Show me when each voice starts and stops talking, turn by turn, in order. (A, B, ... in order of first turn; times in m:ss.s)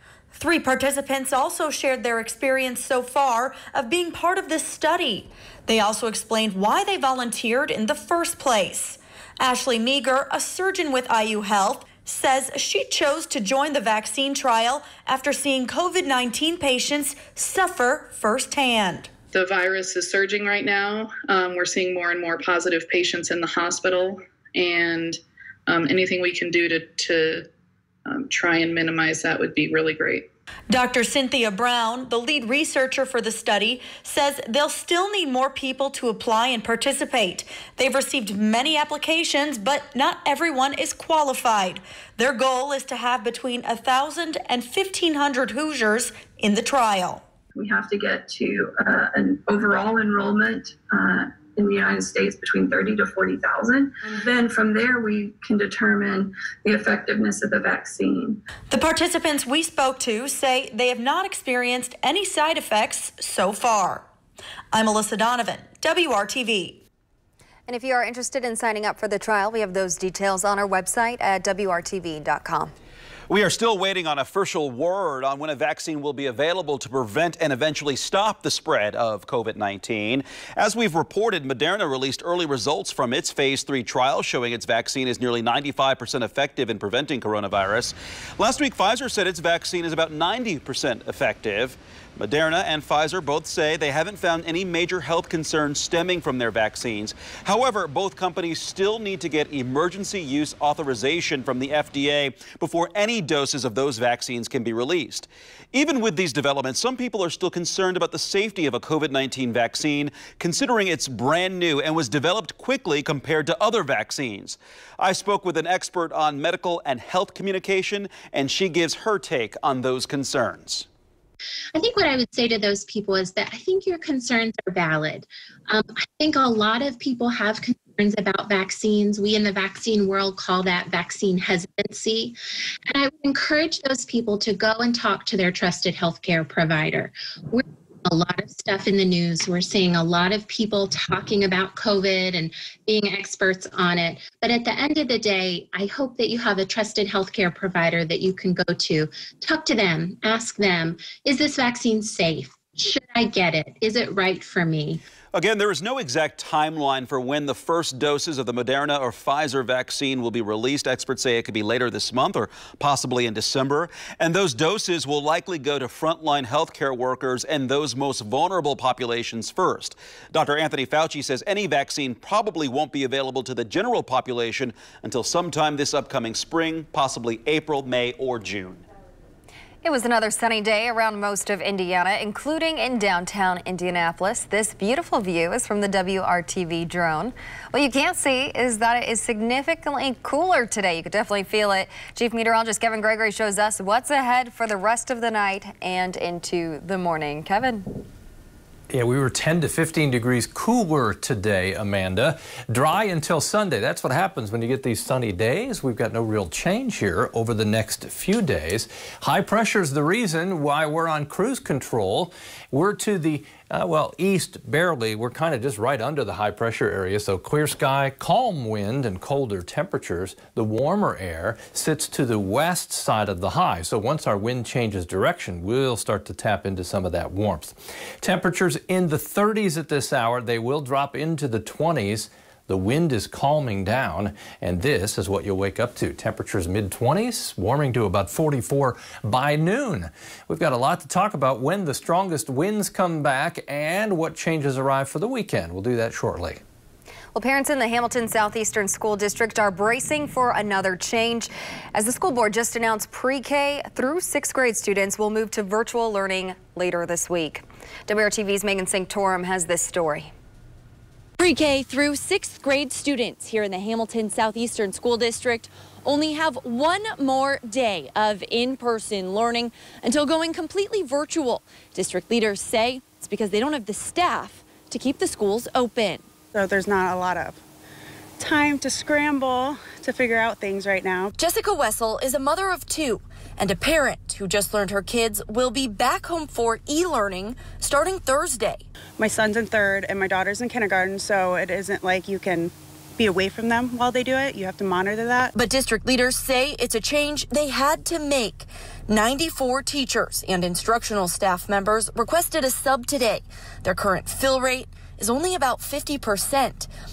0:00.3-0:19.1 A
0:19.3-0:27.5 B
0:28.0-0:30.3 B
0:30.7-0:47.2 A
0:47.6-0:58.4 C
0:58.7-1:04.1 A
1:04.7-1:06.8 A
1:07.7-1:12.7 D
1:13.3-2:00.9 E
2:01.8-2:12.3 F
2:13.0-2:35.0 F
2:35.3-2:58.8 E
2:59.8-3:18.0 D
3:18.9-4:06.6 G
4:07.3-4:20.3 D
4:21.4-4:36.2 H
4:23.8-4:24.1 F
4:36.5-4:37.6 I
4:38.4-4:41.3 I
4:41.4-4:48.8 H
4:49.2-4:55.5 I
4:55.6-5:06.9 H